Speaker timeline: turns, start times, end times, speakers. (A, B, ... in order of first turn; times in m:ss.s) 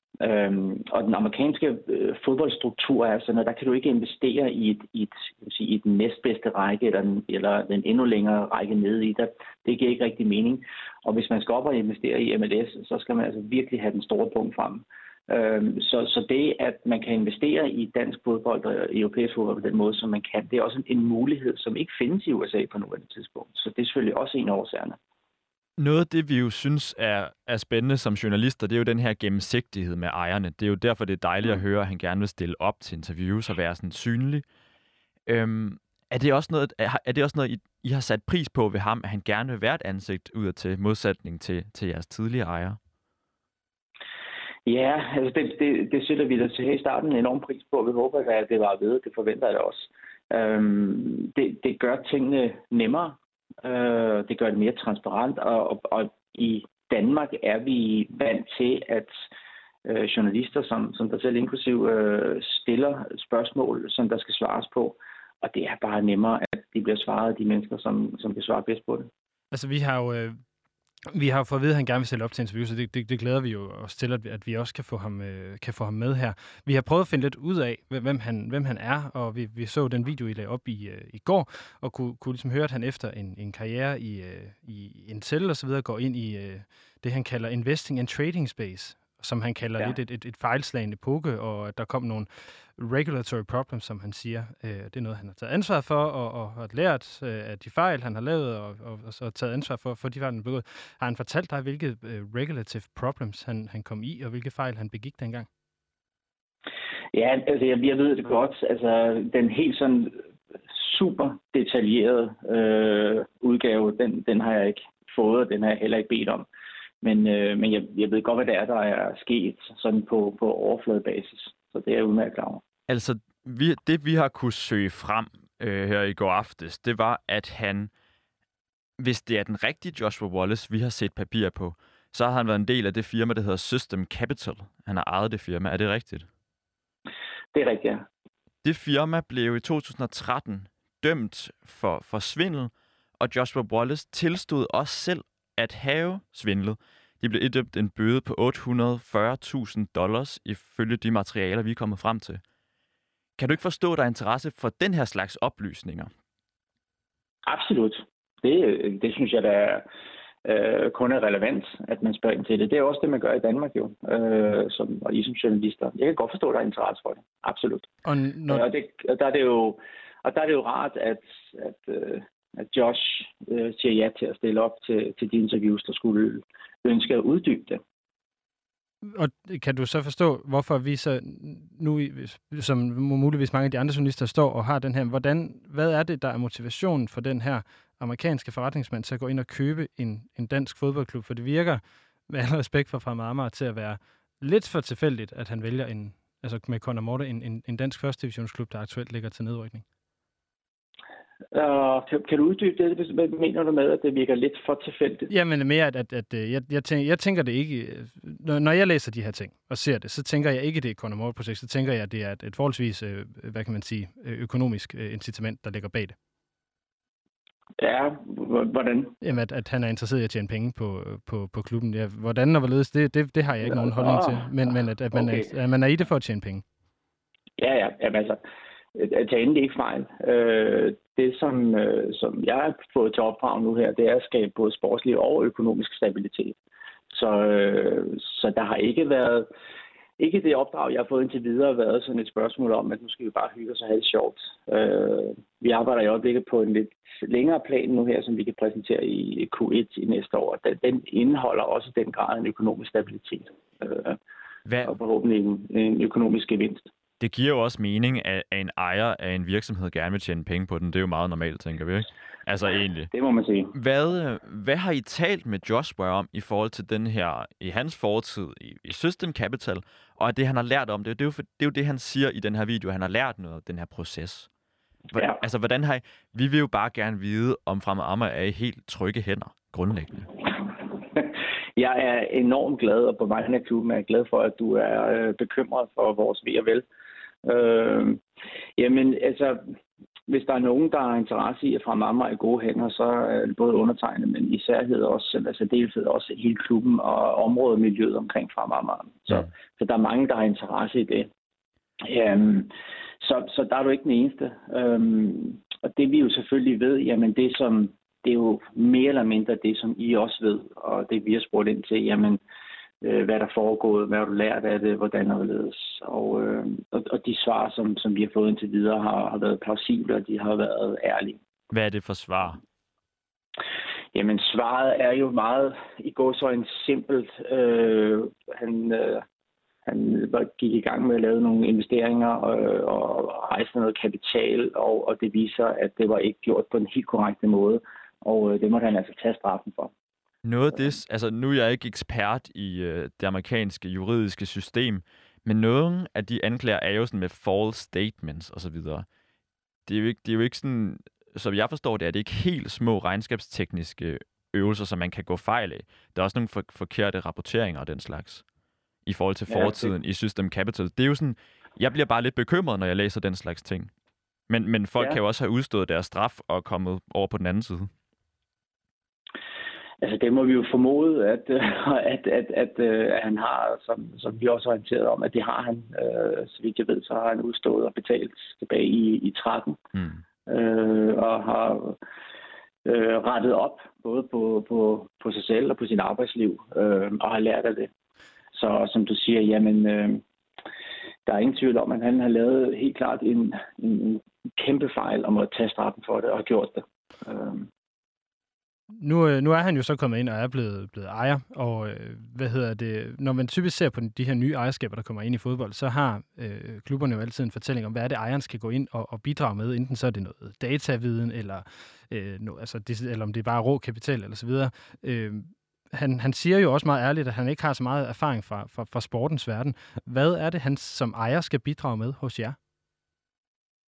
0:00.2-0:25.0 A
0:25.8-0:34.4 B
0:35.3-0:42.8 B
0:44.7-0:59.3 A
0:59.8-1:09.1 A
1:09.5-1:10.4 C
1:11.1-1:45.5 C
1:47.1-1:56.5 A
1:57.0-2:02.6 A
2:02.9-2:07.9 B
2:09.0-2:16.3 B
2:17.5-2:18.1 A
2:18.6-2:32.4 B
2:33.4-2:36.1 B
2:37.5-2:39.9 A
2:40.4-2:47.9 A
2:48.0-2:48.7 C
2:48.5-2:57.8 A
2:59.0-3:19.8 C
3:21.5-3:25.3 A
3:25.3-3:36.2 C
3:37.8-3:39.1 A
3:39.2-3:46.6 C
3:43.6-3:44.5 A
3:45.1-3:45.5 A
3:47.6-3:48.4 A
3:49.0-3:56.6 A
3:57.1-3:59.5 A
4:00.2-4:14.2 A
4:14.7-4:15.0 B
4:14.8-4:16.9 A
4:17.2-4:23.1 B
4:23.1-4:23.7 A
4:23.7-4:34.5 B
4:35.1-4:40.3 B
4:35.1-4:35.4 A
4:40.9-4:46.8 A
4:47.4-4:48.2 A
4:48.8-4:49.8 A
4:50.3-5:01.3 A
5:02.0-5:12.4 A
5:13.0-5:21.4 A
5:21.7-5:22.6 B
5:24.1-5:29.2 A
5:29.9-5:39.9 A
5:40.4-5:49.1 B
5:49.9-5:58.4 B
5:59.0-6:03.9 B
5:59.5-5:59.9 A
6:04.5-6:07.9 B
6:10.0-6:19.8 A
6:20.5-6:22.0 A
6:22.8-6:27.9 A
6:28.5-6:30.2 A
6:31.3-6:37.7 A
6:39.0-7:02.6 C